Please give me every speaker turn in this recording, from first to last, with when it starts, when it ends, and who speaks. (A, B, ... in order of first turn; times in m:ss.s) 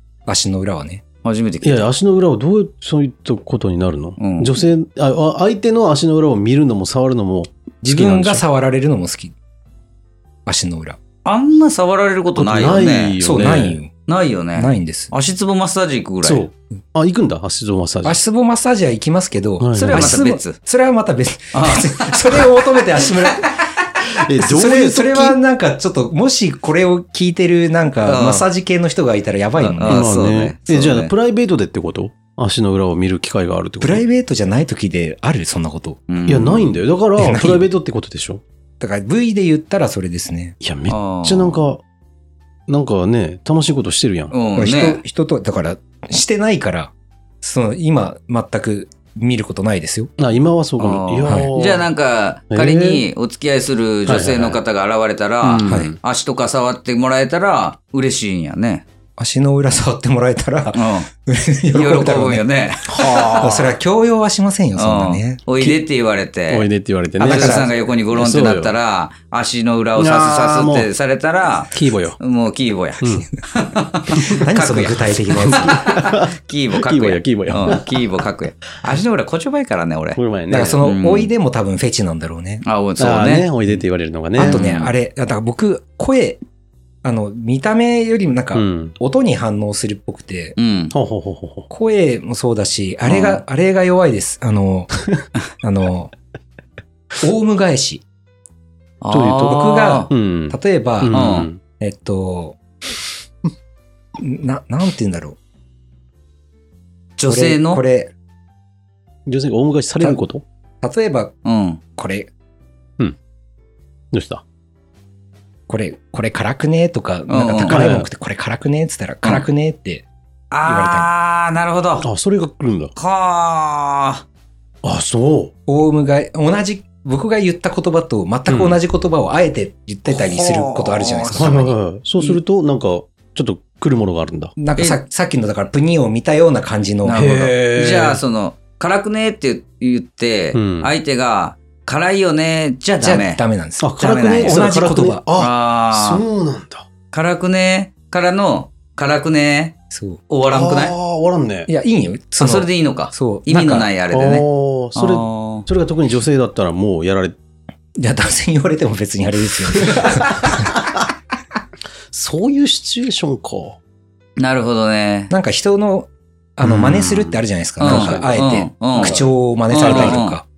0:00.3-0:01.0 A
0:01.2-0:01.9 B
0:01.6-0:08.4 C
0:04.2-0:04.6 B
0:07.8-0:09.3 A
0:10.4-0:11.0 A
0:11.2-0:13.2 B
0:12.3-0:13.8 C
0:13.2-0:13.9 A
0:14.1-0:16.5 B
0:14.6-0:15.1 A
0:16.2-0:18.2 C
0:18.0-0:23.6 A
0:19.6-0:20.2 C
0:19.7-0:20.6 B
0:21.5-0:23.5 B
0:24.1-0:25.4 C
0:24.4-0:30.1 A
0:28.0-0:28.5 B
0:29.6-0:31.1 B
0:29.8-0:34.0 C
0:33.8-0:36.0 A
0:36.1-0:36.7 B
0:36.2-0:38.4 C
0:37.2-0:37.7 A
0:38.8-0:40.5 A
0:40.6-0:41.8 C
0:40.9-0:41.6 B
0:42.7-0:44.3 C
0:44.3-0:45.0 B
0:44.5-0:50.1 A
0:50.2-0:51.9 C
0:50.8-0:58.8 B
0:52.5-0:53.0 C
0:54.0-0:54.6 C
0:55.4-0:56.0 C
0:55.6-0:55.9 A
0:59.2-1:02.4 A
1:00.7-1:01.1 B
1:01.7-1:03.5 B
1:02.9-1:03.7 C
1:03.4-1:05.4 A
1:04.8-1:06.7 B
1:06.5-1:08.7 C
1:07.2-1:20.2 B
1:07.2-1:07.7 A
1:10.0-1:10.9 C
1:11.7-1:12.2 C
1:13.0-1:13.3 C
1:14.2-1:15.8 A
1:15.5-1:17.9 C
1:20.1-1:20.8 C
1:20.5-1:22.6 A
1:20.8-1:21.3 B
1:22.6-1:23.5 B
1:23.0-1:24.6 C
1:24.4-1:26.4 A
1:24.4-1:24.9 B
1:27.0-1:30.6 A
1:28.5-1:29.0 C
1:30.6-1:30.9 B
1:30.9-1:31.7 C
1:31.7-1:35.0 A
1:33.0-1:33.4 B
1:35.6-1:36.1 A
1:37.2-1:38.0 A
1:39.0-1:40.1 B
1:39.1-1:41.6 C
1:39.5-1:42.6 A
1:41.1-1:41.5 B
1:44.2-1:45.4 A
1:47.2-1:47.8 B
1:47.2-1:48.1 A
1:49.2-1:50.4 C
1:50.8-1:51.3 A
1:51.4-1:51.8 B
1:52.0-1:52.3 A
1:54.1-1:54.4 C
1:55.7-2:00.0 A
1:57.3-1:57.9 B
1:57.7-1:58.1 C
2:00.5-2:02.0 B
2:00.6-2:01.1 A
2:02.0-2:02.9 C
2:03.0-2:04.2 B
2:04.8-2:05.5 C
2:05.7-2:11.7 A
2:08.5-2:08.8 C
2:10.1-2:11.6 B
2:11.3-2:14.5 C
2:14.6-2:17.5 A
2:17.0-2:23.4 B
2:17.1-2:18.2 C
2:20.5-2:20.9 C
2:23.0-2:25.2 A
2:23.8-2:26.9 C
2:24.0-2:24.6 B
2:25.4-2:26.2 B
2:27.1-2:29.7 B
2:29.9-2:30.2 A
2:30.3-2:30.9 B
2:30.5-2:31.7 C
2:31.7-2:33.9 A
2:32.4-2:35.7 B
2:34.1-2:37.4 C
2:38.0-2:40.8 A
2:39.8-2:40.8 C
2:42.1-2:43.8 C
2:44.4-2:45.3 B
2:45.3-2:50.4 A
2:46.6-2:50.2 C
2:47.8-2:50.4 B